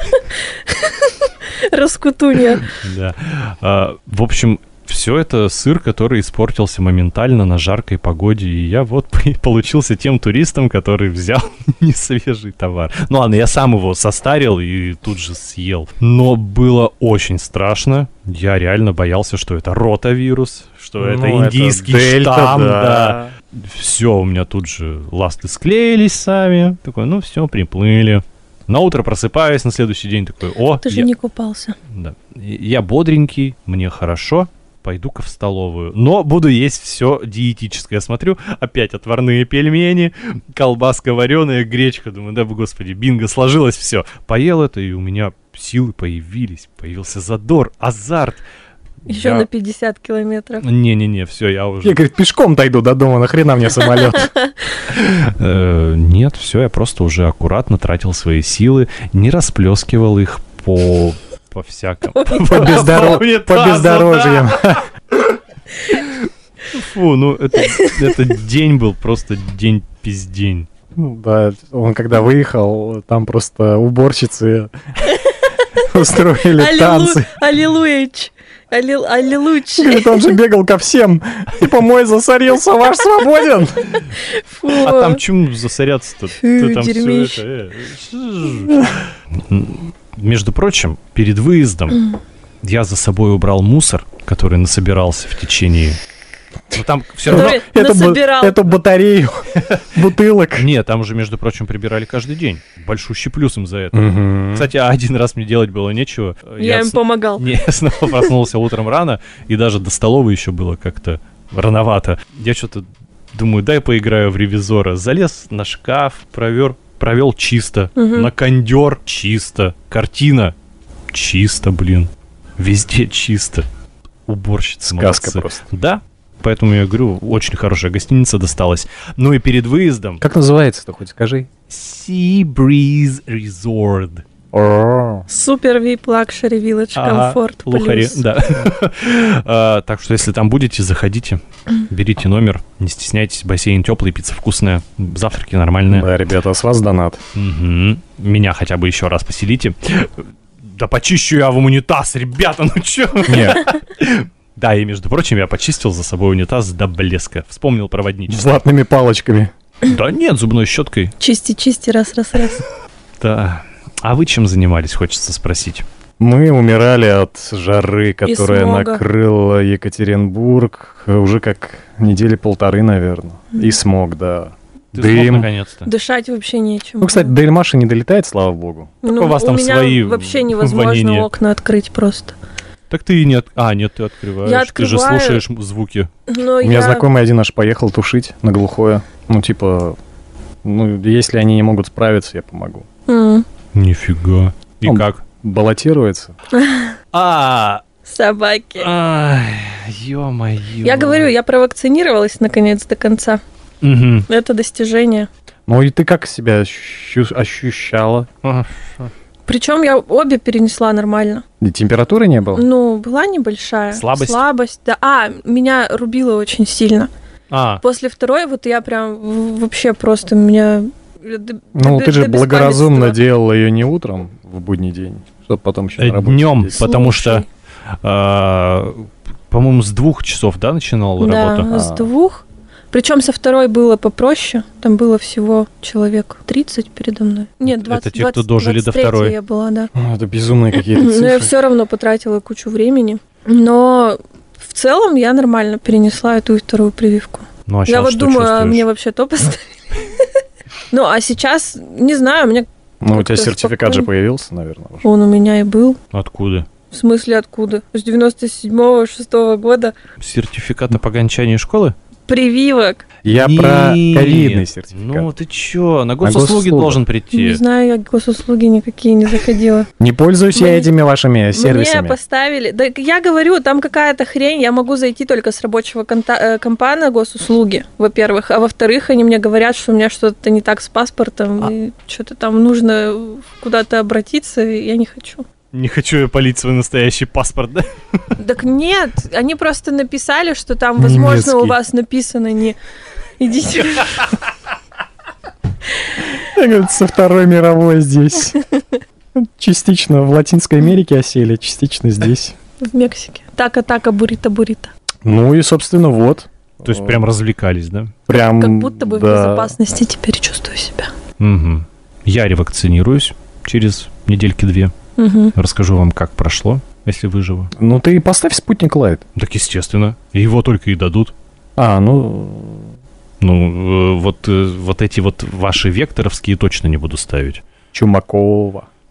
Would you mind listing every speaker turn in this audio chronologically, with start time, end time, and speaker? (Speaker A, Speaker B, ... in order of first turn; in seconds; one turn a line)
Speaker A: 0.2-2.7
Speaker B: 2.6-31.1
Speaker C: 21.0-23.3
Speaker A: 30.8-31.8
Speaker B: 31.9-48.4
Speaker A: 49.1-50.6
Speaker C: 49.1-49.5
Speaker B: 50.6-52.0
Speaker C: 51.8-54.3
Speaker A: 54.1-54.5
Speaker B: 54.9-64.8
Speaker C: 62.4-64.9
Speaker B: 65.9-70.7
Speaker A: 67.6-68.2
Speaker C: 71.0-74.7
Speaker A: 75.1-75.5
Speaker C: 75.8-77.3
Speaker A: 76.4-80.4
Speaker C: 79.8-84.0
Speaker A: 84.2-85.2
Speaker B: 84.7-88.8
Speaker A: 86.4-87.4
Speaker B: 89.5-92.1
Speaker B: 92.6-96.0
Speaker B: 96.7-97.6
Speaker A: 97.3-98.6
Speaker C: 97.3-100.7
Speaker B: 100.6-120.5
Speaker C: 103.9-104.7
Speaker A: 106.6-107.5
Speaker A: 118.0-118.3
Speaker B: 121.1-123.6
Speaker B: 124.3-130.2
Speaker C: 124.8-125.6
Speaker C: 130.2-131.5
Speaker B: 131.7-134.2
Speaker C: 134.5-135.2
Speaker A: 135.3-138.2
Speaker B: 136.9-146.1
Speaker C: 145.9-147.2
Speaker B: 147.3-158.6
Speaker C: 153.3-153.6
Speaker C: 158.3-159.5
Speaker B: 159.8-161.1
Speaker A: 161.2-162.7
Speaker B: 163.2-165.8
Speaker C: 166.2-175.5
Speaker A: 168.2-169.0
Speaker B: 174.9-175.9
Speaker A: 175.8-177.3
Speaker C: 177.0-178.9
Speaker A: 179.0-182.3
Speaker B: 179.0-181.3
Speaker B: 182.9-186.1
Speaker A: 184.4-185.4
Speaker A: 186.3-187.1
Speaker C: 186.6-190.0
Speaker C: 190.6-192.8
Speaker A: 193.1-193.4
Speaker B: 193.7-195.2
Speaker C: 194.8-196.3
Speaker A: 196.5-197.0
Speaker B: 197.1-197.8
Speaker A: 198.1-198.9
Speaker B: 198.8-201.3
Speaker A: 200.8-203.4
Speaker B: 203.8-204.3
Speaker A: 204.3-205.3
Speaker C: 205.7-208.3
Speaker B: 208.4-209.1
Speaker A: 209.5-211.4
Speaker C: 211.6-212.7
Speaker A: 212.6-217.1
Speaker B: 213.9-214.4
Speaker B: 217.5-217.8
Speaker A: 217.8-223.2
Speaker C: 221.7-226.9
Speaker B: 226.0-231.7
Speaker A: 226.8-227.4
Speaker A: 231.2-239.9
Speaker C: 231.7-232.1
Speaker B: 237.7-239.3
Speaker C: 239.9-241.5
Speaker A: 240.9-250.4
Speaker B: 247.7-248.8
Speaker A: 250.9-254.1
Speaker C: 253.0-255.0
Speaker A: 255.0-256.0
Speaker B: 256.1-256.7
Speaker A: 256.9-259.9
Speaker B: 260.2-261.9
Speaker A: 262.3-263.1
Speaker C: 263.2-265.3
Speaker B: 263.3-267.6
Speaker C: 266.2-267.0
Speaker A: 267.3-269.9
Speaker C: 270.0-272.2
Speaker A: 270.5-270.9
Speaker A: 271.5-285.4
Speaker B: 285.7-287.9
Speaker A: 288.4-292.8
Speaker C: 291.0-291.8
Speaker A: 293.4-294.3
Speaker C: 296.4-298.6
Speaker C: 299.3-302.5
Speaker A: 302.8-304.9
Speaker C: 305.2-307.2
Speaker B: 306.8-308.1
Speaker C: 308.3-309.8
Speaker A: 308.3-311.1
Speaker B: 311.4-314.9
Speaker A: 315.2-315.5
Speaker B: 315.5-317.7
Speaker C: 317.8-319.2
Speaker B: 319.4-321.3
Speaker C: 321.8-322.9
Speaker B: 323.4-327.6
Speaker C: 327.9-328.9